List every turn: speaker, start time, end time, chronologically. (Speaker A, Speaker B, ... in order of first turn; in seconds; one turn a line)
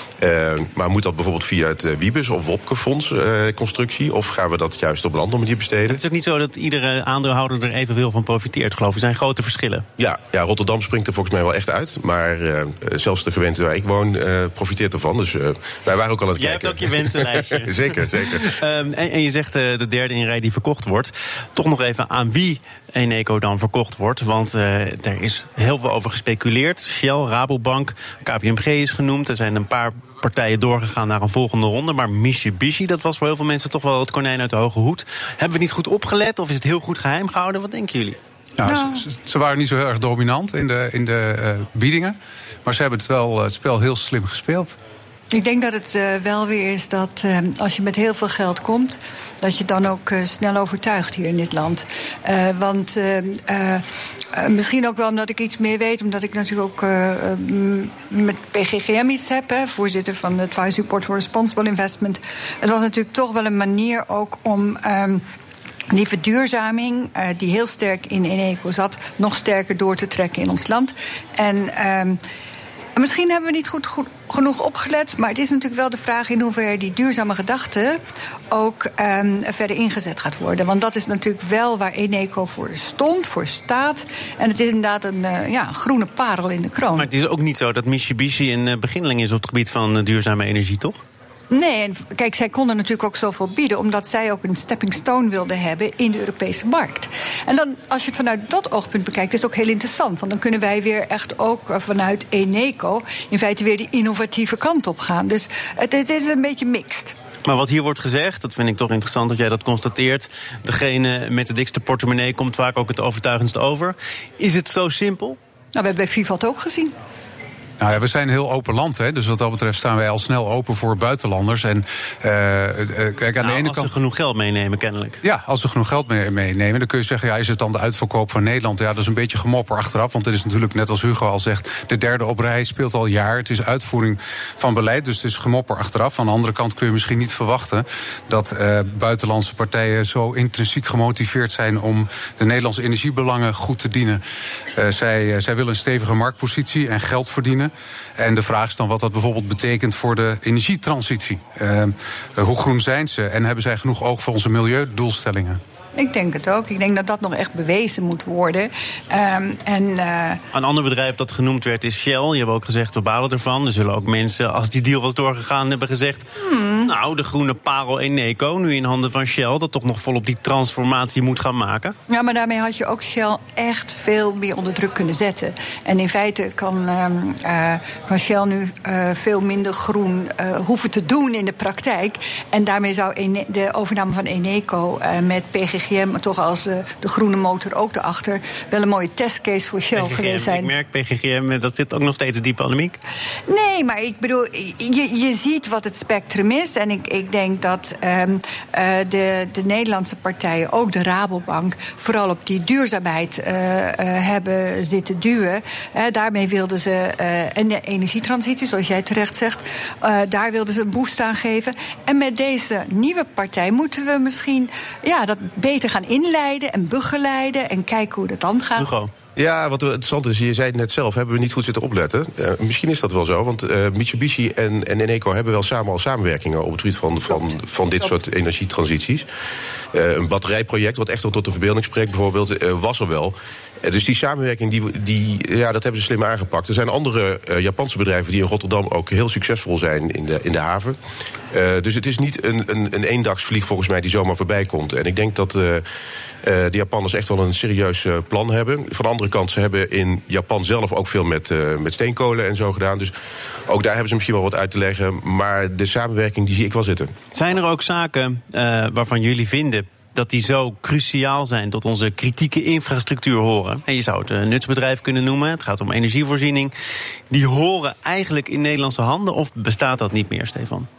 Speaker A: 0.2-6.0
Speaker B: 5.9-9.8
Speaker A: 10.0-18.6
Speaker B: 16.4-38.2
Speaker C: 38.6-44.8
Speaker D: 38.6-39.0
Speaker D: 45.3-65.2
Speaker D: 65.9-72.2
Speaker D: 73.0-78.0
Speaker D: 78.5-87.1
Speaker B: 87.0-91.0
Speaker D: 91.5-107.1
Speaker B: 107.4-115.4
Speaker D: 115.7-116.9
Speaker C: 117.8-123.9
Speaker B: 123.4-125.2
Speaker C: 125.2-155.6
Speaker D: 155.9-160.4
Speaker B: 160.5-166.3
Speaker D: 166.4-166.9
Speaker B: 166.8-171.9
Speaker D: 172.1-190.7
Speaker B: 189.9-193.0
Speaker D: 193.5-218.9
Speaker B: 218.8-219.1
Speaker A: 219.3-229.2
Speaker A: 229.9-240.9
Speaker A: 241.5-245.8
Speaker A: 246.4-253.1
Speaker A: 253.7-257.1
Speaker B: 257.3-266.7
Speaker B: 267.3-270.9